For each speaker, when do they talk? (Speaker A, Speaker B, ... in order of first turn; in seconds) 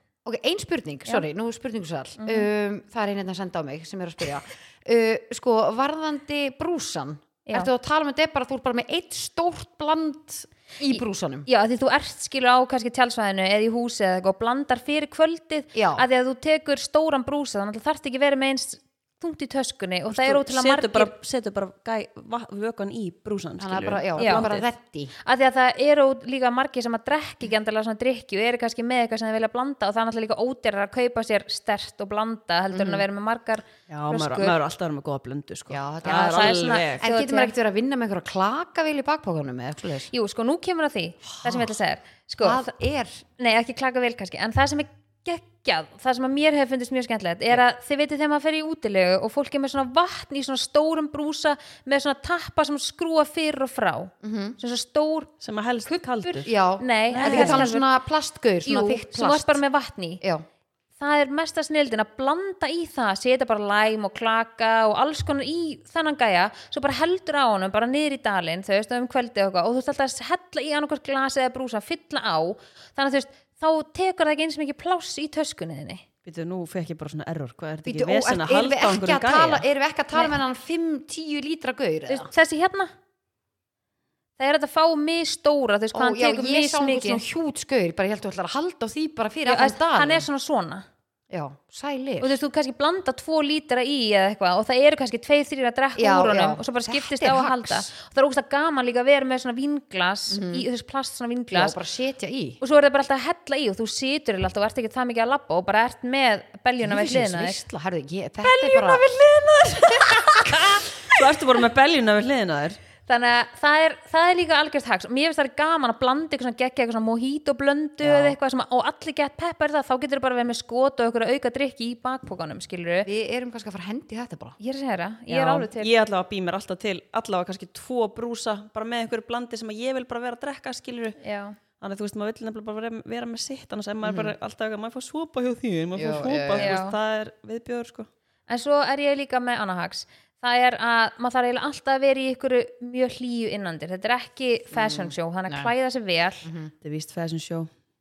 Speaker A: 0.2-11.5, 15.7-16.0, 23.6-25.1, 32.7-33.0, 35.7-40.1, 41.4-41.7, 42.4-43.2, 54.2-54.6, 56.4-59.6, 60.2-60.5, 77.8-82.3, 85.9-90.3, 91.3-92.3, 96.0-97.9, 100.3-100.7, 101.5-102.6, 106.8-109.0, 118.0-118.4, 123.0-124.6, 134.0-134.3, 135.9-136.8, 144.7-145.7, 146.4-146.7
Speaker B: 2.2-2.5, 10.9-21.1, 24.2-24.5, 25.2-34.5, 36.0-37.5, 40.1-42.7, 43.4-55.3, 55.9-57.9, 58.6-60.2, 61.0-76.0, 82.1-82.9, 84.4-87.2, 89.5-90.8, 92.2-101.8, 102.6-107.6, 113.1-123.1, 124.6-125.9, 131.2-131.6, 136.6-137.0, 138.5-146.4
Speaker C: 20.1-24.7, 33.9-37.0, 55.4-56.5, 57.1-57.7, 76.2-79.6, 108.4-112.8, 125.3-131.2, 131.8-138.1, 146.8-147.7